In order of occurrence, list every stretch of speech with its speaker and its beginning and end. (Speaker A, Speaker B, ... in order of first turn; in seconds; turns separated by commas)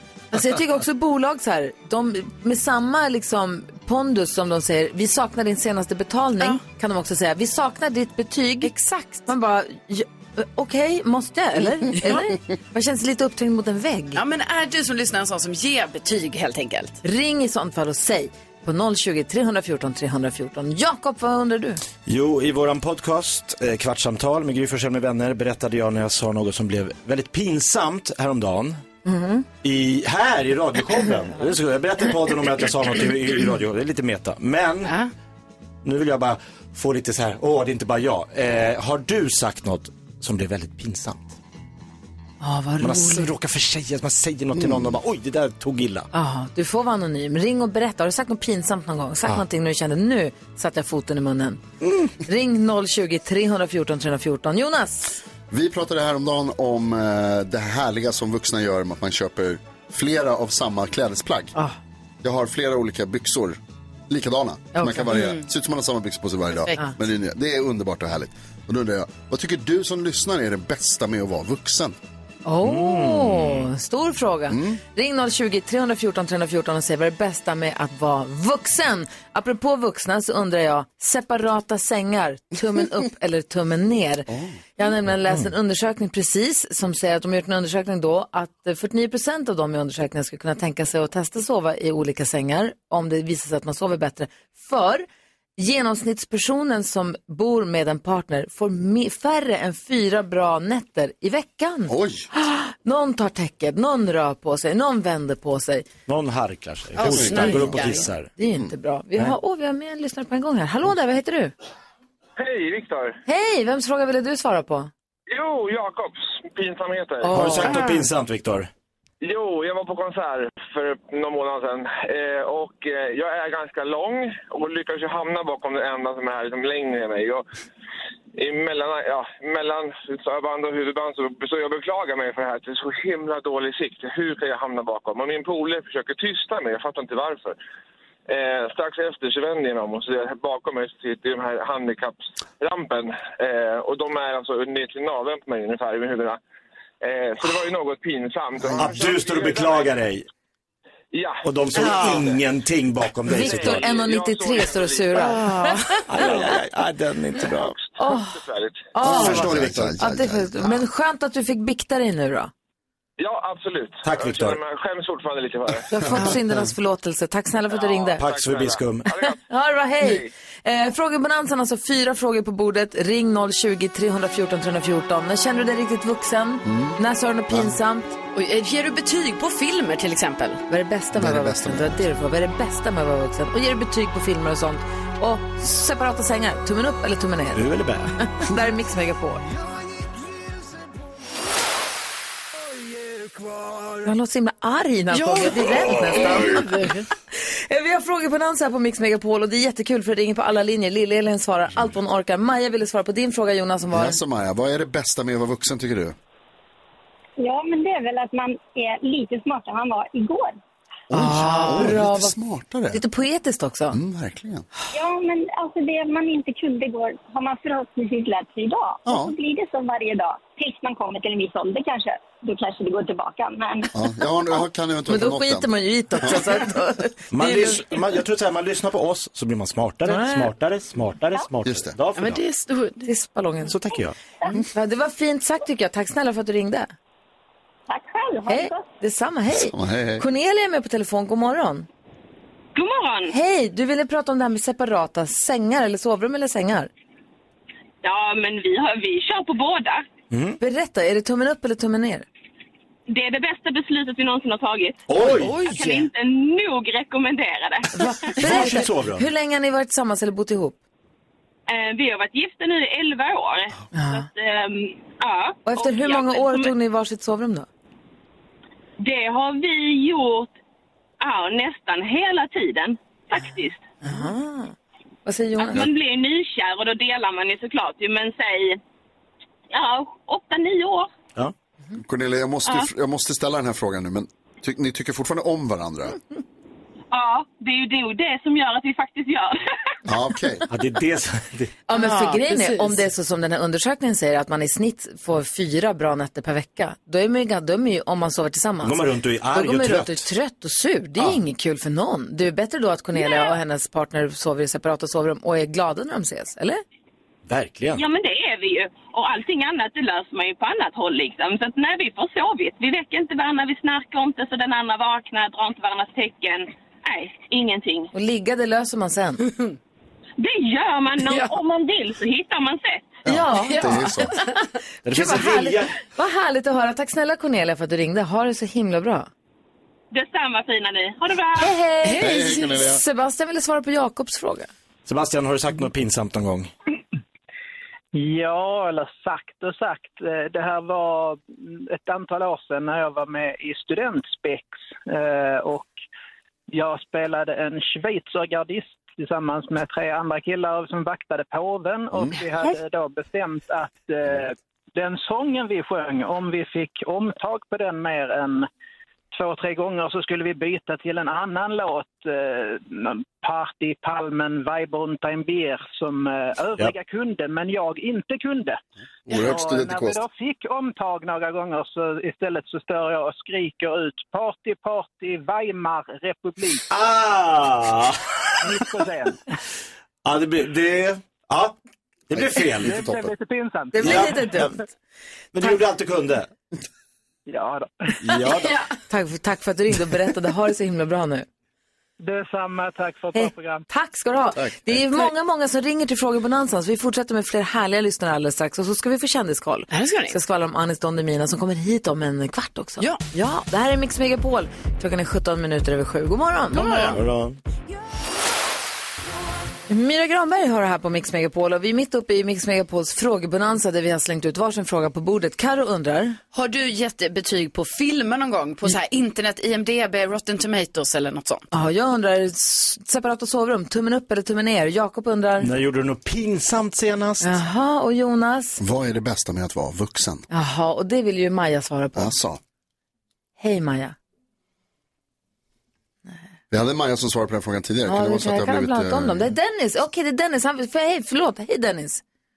Speaker A: 0.3-14.2, Speaker B: 8.7-9.1, Speaker B: 14.1-17.0, Speaker A: 17.0-21.8, Speaker C: 22.1-28.8, Speaker A: 29.0-29.4, Speaker C: 29.6-35.0, Speaker B: 34.9-35.1, Speaker C: 35.8-41.3, Speaker A: 42.4-43.3, Speaker C: 42.8-46.1, Speaker D: 44.5-45.0, Speaker A: 46.1-51.6, Speaker C: 51.8-52.1, Speaker A: 52.2-55.2, Speaker D: 55.5-61.5, Speaker D: 62.2-72.0, Speaker A: 64.7-65.1, Speaker B: 65.1-65.5, Speaker A: 72.4-95.0, Speaker C: 72.6-73.7, Speaker D: 74.5-74.8, Speaker D: 84.3-84.6, Speaker A: 95.6-105.9, Speaker D: 101.9-102.3, Speaker C: 106.1-108.3, Speaker B: 107.0-108.1, Speaker D: 107.1-107.5, Speaker A: 107.3-107.7, Speaker A: 108.4-111.5, Speaker E: 112.4-113.2, Speaker A: 113.2-114.9, Speaker E: 115.3-117.3, Speaker A: 117.2-117.9, Speaker C: 117.3-118.7, Speaker B: 117.6-118.0, Speaker E: 119.2-127.5, Speaker E: 128.4-137.6, Speaker E: 138.3-146.4, Speaker E: 147.0-149.9, Speaker C: 148.7-150.2, Speaker E: 151.1-152.4, Speaker C: 151.4-153.9, Speaker A: 153.3-156.4, Speaker E: 153.3-155.4, Speaker C: 156.0-157.8, Speaker E: 157.7-158.9, Speaker A: 158.0-158.4, Speaker A: 158.9-162.5, Speaker D: 159.0-160.8, Speaker C: 159.0-160.0, Speaker E: 163.2-165.9, Speaker C: 164.0-164.6, Speaker A: 165.9-168.2, Speaker E: 167.7-169.4, Speaker C: 168.2-169.1, Speaker A: 169.4-178.2, Speaker E: 170.0-170.3, Speaker D: 176.6-177.0, Speaker B: 178.3-180.6, Speaker A: 180.7-187.6, Speaker D: 181.2-182.1, Speaker C: 187.5-188.1, Speaker A: 188.2-189.4, Speaker A: 194.0-196.7, Speaker B: 195.1-197.1, Speaker A: 197.3-204.2, Speaker D: 203.9-206.1, Speaker F: 207.4-210.6, Speaker D: 211.1-213.0, Speaker A: 211.1-212.3, Speaker A: 212.9-214.0, Speaker D: 213.9-214.7, Speaker F: 214.9-223.9, Speaker D: 219.1-219.3, Speaker D: 223.9-226.6, Speaker A: 225.1-227.8, Speaker C: 227.3-232.4, Speaker A: 230.1-230.5, Speaker D: 231.6-232.0, Speaker B: 232.2-233.1, Speaker A: 233.0-233.7, Speaker C: 233.7-234.2, Speaker A: 234.6-236.9, Speaker F: 237.9-238.9, Speaker A: 238.5-241.9, Speaker D: 239.5-240.2, Speaker G: 242.7-243.3, Speaker A: 243.3-246.9, Speaker G: 248.0-250.1, Speaker C: 250.3-250.6, Speaker A: 250.6-252.2, Speaker G: 253.1-258.3, Speaker C: 255.1-255.6, Speaker B: 255.4-256.0, Speaker A: 257.9-260.8, Speaker C: 258.4-259.3, Speaker G: 261.7-266.7, Speaker A: 263.9-264.2, Speaker A: 265.7-267.7, Speaker G: 269.0-270.5, Speaker G: 271.2-273.8, Speaker A: 274.0-275.9, Speaker G: 275.6-278.8, Speaker G: 279.7-281.1, Speaker D: 281.9-286.2, Speaker G: 287.1-289.6, Speaker D: 290.1-290.6, Speaker C: 290.7-291.8, Speaker A: 291.9-306.8, Speaker B: 291.9-293.0, Speaker C: 298.8-300.3, Speaker C: 307.5-308.0, Speaker G: 307.9-318.1, Speaker A: 318.1-319.5, Speaker G: 320.4-323.1, Speaker D: 323.2-324.3, Speaker A: 323.2-324.5, Speaker B: 323.8-324.0, Speaker C: 325.0-325.9, Speaker A: 325.1-329.3, Speaker G: 330.1-331.7, Speaker A: 331.6-334.7, Speaker D: 332.1-333.0, Speaker B: 332.2-332.5, Speaker C: 335.1-336.7, Speaker H: 338.1-345.9, Speaker H: 346.7-358.7, Speaker H: 359.3-376.8, Speaker D: 369.3-370.2, Speaker C: 376.9-378.4, Speaker H: 378.6-379.4, Speaker C: 380.2-381.8, Speaker C: 382.3-383.2, Speaker D: 382.4-383.2, Speaker H: 382.6-384.6, Speaker A: 383.9-384.9, Speaker C: 384.0-384.7, Speaker C: 385.5-386.5, Speaker H: 387.5-388.6, Speaker C: 388.2-388.8, Speaker A: 389.1-391.4, Speaker H: 392.2-393.8, Speaker A: 393.3-407.1, Speaker D: 394.6-394.9, Speaker B: 399.9-400.4, Speaker C: 406.7-407.6, Speaker B: 406.8-407.2, Speaker A: 409.9-416.4, Speaker B: 416.5-421.7, Speaker A: 421.7-425.7, Speaker C: 425.6-427.6, Speaker A: 427.4-428.8, Speaker D: 428.8-430.4, Speaker A: 430.5-432.3, Speaker D: 432.1-432.6, Speaker A: 433.6-434.1, Speaker D: 436.7-439.5, Speaker A: 438.1-442.2